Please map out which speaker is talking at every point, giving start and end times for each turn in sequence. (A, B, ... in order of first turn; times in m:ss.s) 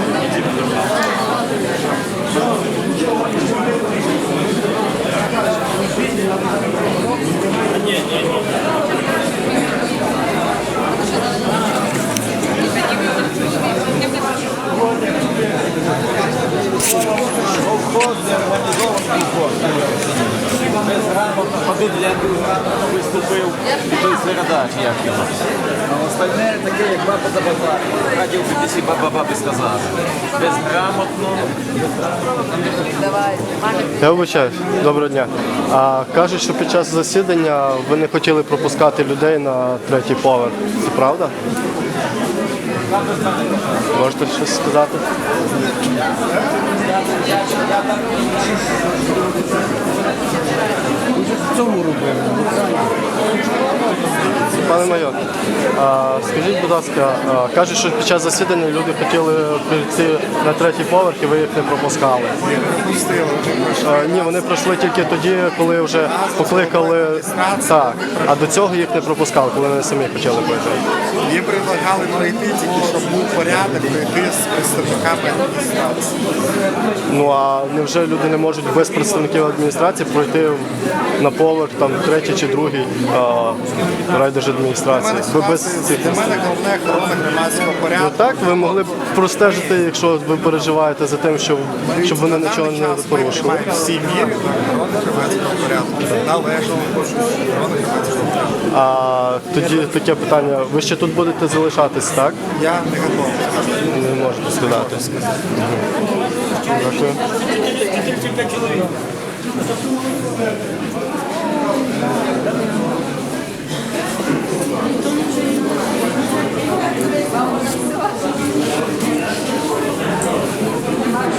0:21.7-0:22.2 A
0:24.1-0:25.3 A
0:26.3-0:27.5 A
0:28.2-0:29.7 A
0:34.0-0:41.3 B
0:43.9-0:45.0 B
0:51.5-0:52.6 A
0:54.6-0:55.2 B
0:55.7-1:02.4 B
1:02.4-1:04.5 C
1:03.8-1:10.8 B
1:06.0-1:08.6 C
1:11.2-1:16.3 C
1:17.1-1:26.1 B
1:24.9-1:28.7 C
1:27.9-1:33.7 B
1:31.9-1:38.5 C
1:38.7-1:42.4 B
1:42.5-1:43.6 C
1:43.9-1:45.8 B
1:44.6-1:45.3 C
1:46.7-1:47.2 B